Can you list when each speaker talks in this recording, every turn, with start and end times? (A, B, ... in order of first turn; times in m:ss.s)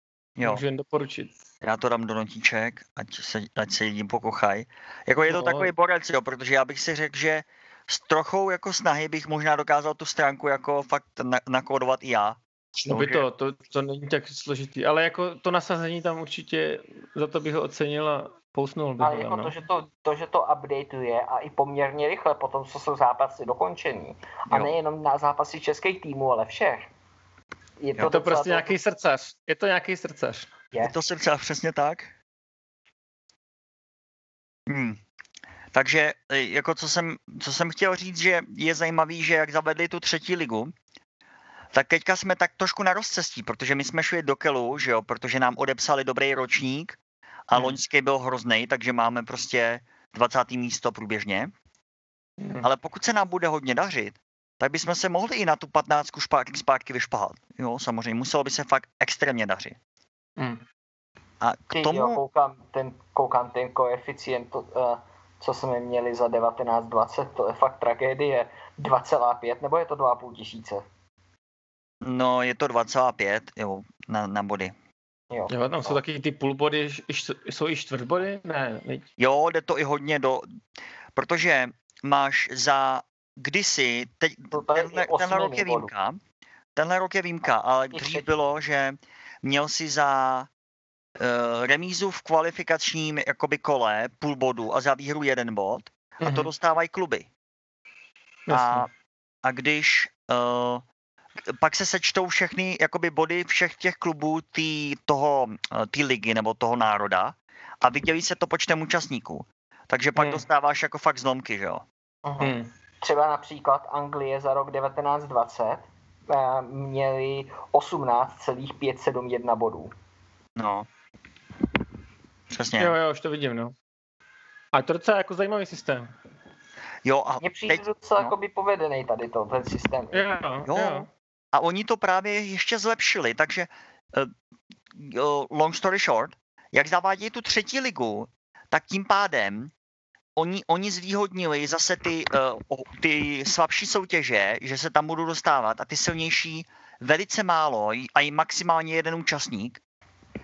0:00.4-0:00.6 A
0:00.4-0:01.3 B
0:01.6-0:13.2 A
0:05.3-0:05.7 B
0:12.8-0:19.5 B
0:19.0-0:26.9 C
0:27.8-0:28.7 C
0:28.0-0:30.5 B
0:30.8-0:32.1 A
0:34.7-0:35.0 A
0:35.7-0:40.7 A
0:41.7-0:51.5 A
0:52.4-0:52.7 B
0:52.6-0:59.8 A
1:00.4-1:00.6 B
1:01.4-1:02.2 A
1:01.7-1:10.8 C
1:12.0-1:14.7 A
1:15.3-1:16.0 C
1:15.5-1:19.0 B
1:19.2-1:20.4 A
1:21.2-1:26.2 A
1:24.5-1:25.9 C
1:26.8-1:30.5 A
1:27.9-1:28.3 C
1:31.2-1:37.3 A
1:36.2-1:36.5 B
1:38.5-1:38.9 B
1:38.5-1:38.9 A
1:39.4-1:40.8 A
1:41.5-1:51.8 A
1:50.2-1:50.4 B
1:52.2-1:59.9 C
1:52.4-1:52.7 B
2:00.6-2:00.9 A
2:02.5-2:02.9 A
2:02.8-2:03.7 B
2:04.7-2:06.1 B
2:07.0-2:08.3 A
2:07.4-2:10.3 C
2:10.1-2:11.1 B
2:10.7-2:14.3 A
2:14.9-2:19.7 A
2:20.4-2:29.8 A